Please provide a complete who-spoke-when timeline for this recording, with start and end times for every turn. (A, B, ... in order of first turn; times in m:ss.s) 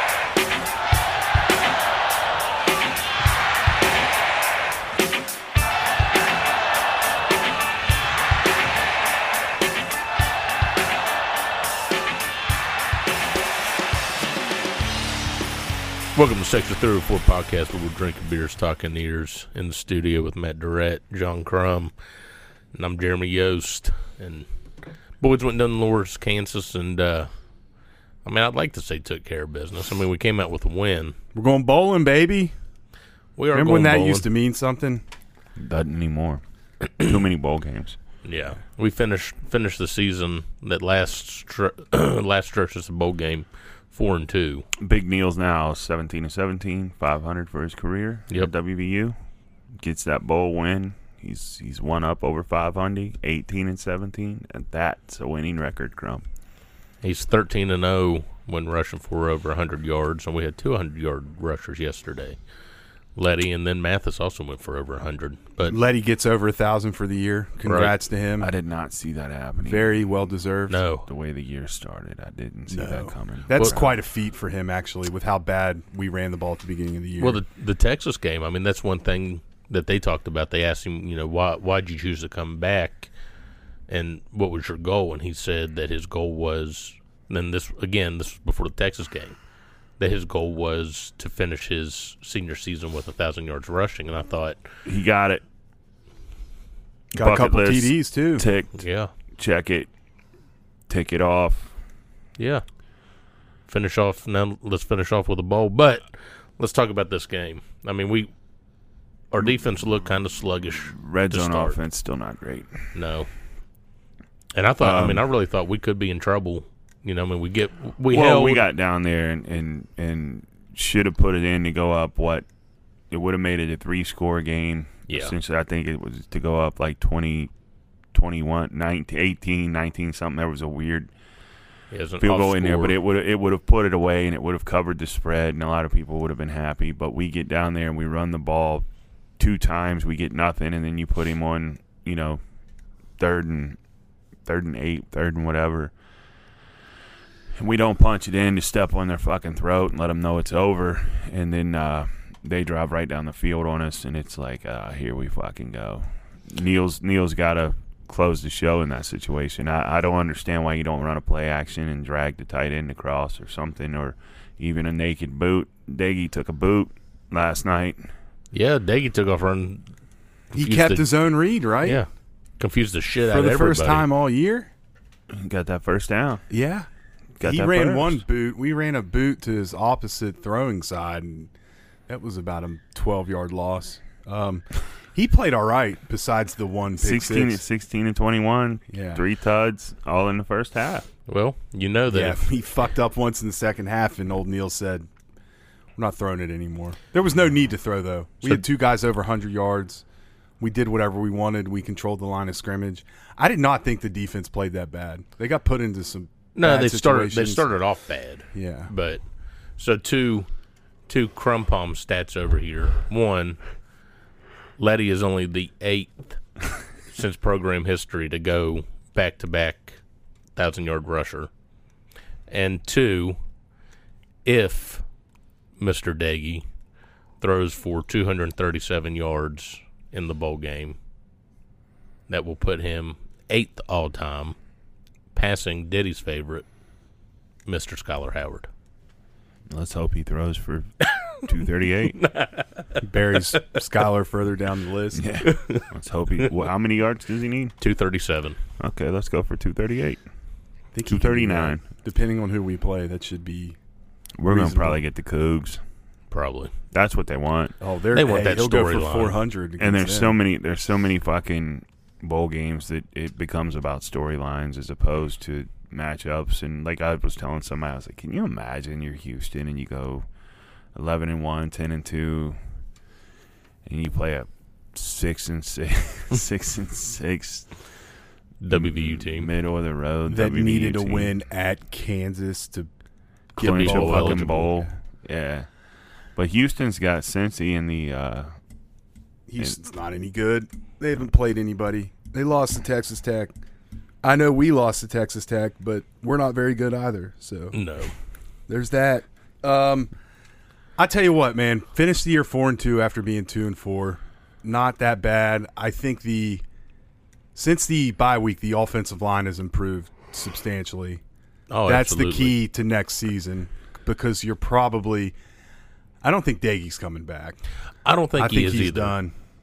0:16.1-0:21.9 A
0:22.7-0:24.4 A
0:25.2-0:27.3 A
0:28.2-0:31.2 A
0:31.3-0:32.5 B
0:33.4-0:34.3 A
0:33.5-0:35.0 B
0:35.6-0:36.4 C
0:37.0-0:38.0 C
0:38.2-0:44.6 A
0:44.8-0:49.1 C
0:49.8-0:56.2 C
0:57.0-1:02.4 A
1:03.2-1:05.8 A
1:05.6-1:08.5 B
1:07.6-1:07.9 A
1:08.4-1:10.0 C
1:09.6-1:10.8 B
1:10.7-1:11.1 A
1:11.0-1:13.9 C
1:12.7-1:17.4 B
1:13.5-1:13.8 A
1:17.2-1:23.1 A
1:23.9-1:29.4 A
1:30.0-1:34.6 A
1:34.8-1:35.4 C
1:37.1-1:38.4 B
1:37.2-1:38.8 C
1:38.8-1:39.1 A
1:39.4-1:39.9 C
1:40.9-1:41.7 C
1:42.4-1:42.6 A
1:43.7-1:48.3 A
1:49.3-1:51.8 A
1:50.9-1:52.8 C
1:52.9-1:53.3 A
1:54.5-1:58.6 A
1:54.8-1:55.2 C
1:58.1-2:02.4 C
2:03.1-2:07.5 C
2:05.1-2:05.3 A
2:08.1-2:11.1 C
2:11.9-2:13.0 A
2:12.2-2:18.8 C
2:19.4-2:22.4 C
2:23.2-2:23.8 C
2:24.4-2:25.9 C
2:27.6-2:48.1 C
2:48.5-2:49.9 A
2:50.5-2:51.1 A
2:50.5-2:52.0 B
2:51.8-2:52.1 A
2:52.6-2:54.1 A
2:53.2-2:54.7 B
2:55.3-2:56.4 C
2:56.5-2:56.9 B
2:57.4-2:58.2 C
2:57.4-3:01.5 B
3:02.1-3:07.6 B
3:07.0-3:11.1 C
3:08.9-3:09.2 B
3:11.2-3:12.4 A
3:12.1-3:15.1 B
3:16.0-3:20.0 B
3:20.6-3:27.7 B
3:26.5-3:29.2 A
3:28.5-3:28.9 B
3:29.8-3:30.5 A
3:31.1-3:33.6 A
3:34.8-3:36.4 A
3:37.1-3:40.0 A
3:40.6-3:41.5 A
3:42.5-3:43.4 A
3:44.4-3:45.0 A
3:45.8-3:46.6 A
3:47.4-3:51.0 A
3:52.3-3:54.6 A
3:55.3-3:56.6 A
3:57.6-3:58.7 A
3:59.7-4:02.2 C
4:02.2-4:02.8 A
4:03.0-4:05.2 B
4:05.1-4:07.7 C
4:05.5-4:05.8 A
4:07.8-4:08.6 A
4:08.8-4:10.2 C
4:10.9-4:13.8 B
4:11.0-4:11.9 C
4:14.4-4:15.8 C
4:14.5-4:15.0 B
4:16.3-4:16.7 A
4:16.9-4:17.7 C
4:17.8-4:20.4 B
4:18.1-4:19.4 A
4:19.8-4:30.2 C
4:30.9-4:32.6 C
4:33.8-4:37.7 C
4:38.6-4:39.5 A
4:38.7-4:41.3 C
4:40.3-4:42.9 B
4:43.5-4:44.9 B
4:43.6-4:44.7 A
4:43.6-4:45.7 C
4:46.4-4:48.5 C
4:49.5-4:53.5 B
4:54.2-4:57.8 B
4:57.7-4:58.1 A
4:58.7-5:00.1 B
5:01.0-5:06.6 B
5:07.5-5:11.2 B
5:11.7-5:12.6 A
5:11.8-5:15.3 B
5:16.2-5:17.6 B
5:18.0-5:19.2 A
5:18.4-5:19.3 B